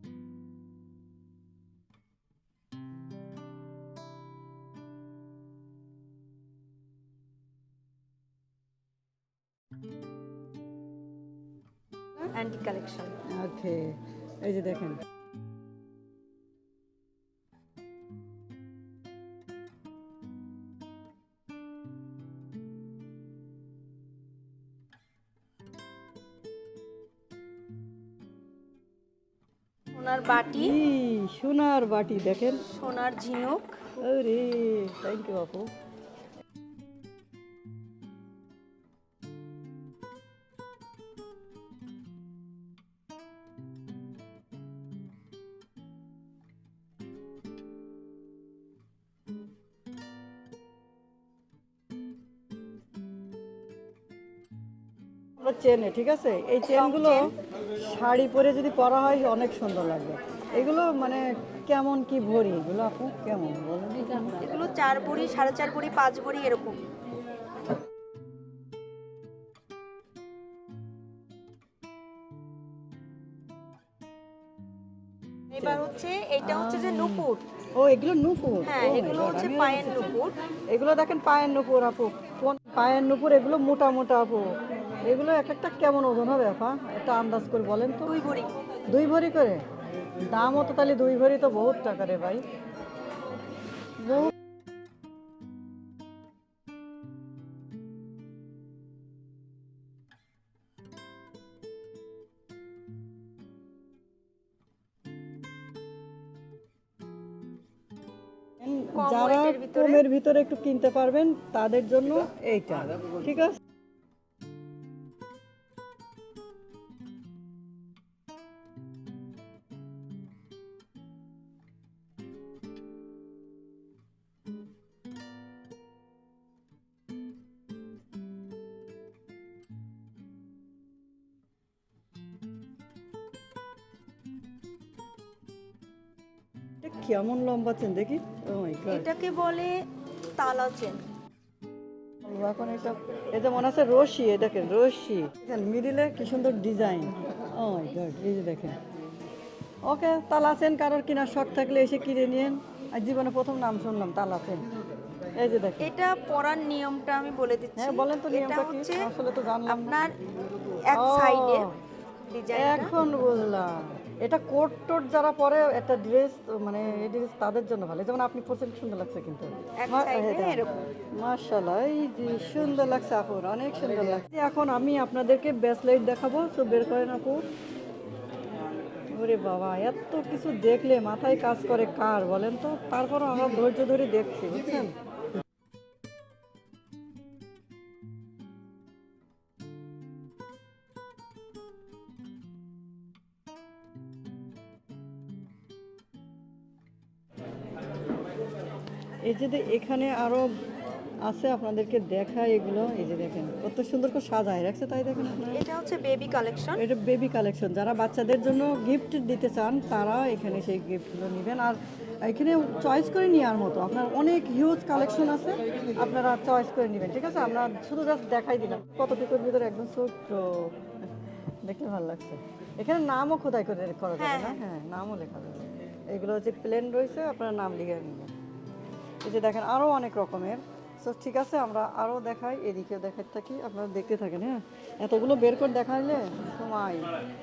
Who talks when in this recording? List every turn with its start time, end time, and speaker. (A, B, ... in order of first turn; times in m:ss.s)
0:12.3-0:13.2 A
0:13.3-0:15.0 B
0:29.9-0:30.8 A
0:30.5-0:32.6 B
0:32.6-0:33.9 A
0:34.0-0:35.7 B
0:55.4-1:04.4 B
0:56.7-0:57.3 A
1:00.5-1:00.8 A
1:04.4-1:06.8 A
1:15.5-1:17.4 A
1:16.4-1:20.2 B
1:18.6-1:20.4 A
1:20.7-1:28.2 B
1:28.0-1:28.5 A
1:28.9-1:29.6 B
1:30.2-1:32.4 B
1:34.0-1:34.3 B
1:48.6-1:53.6 B
1:48.9-1:50.0 A
2:16.8-2:19.1 B
2:18.9-2:19.8 A
2:20.4-2:21.0 A
2:22.2-2:28.8 B
2:29.8-2:34.6 B
2:35.4-2:35.9 B
2:35.8-2:39.1 A
2:37.8-2:40.0 B
2:39.7-2:40.2 A
2:40.8-2:41.7 A
2:40.9-2:41.7 B
2:42.3-2:42.9 A
2:42.5-2:57.4 B
2:49.8-2:50.8 A
2:59.1-3:04.9 B
3:19.2-3:20.5 B
3:21.2-3:25.6 B
3:25.5-3:26.8 A
3:26.8-3:41.1 B
3:41.6-3:48.3 B
3:44.2-3:44.6 A
3:49.2-3:57.1 B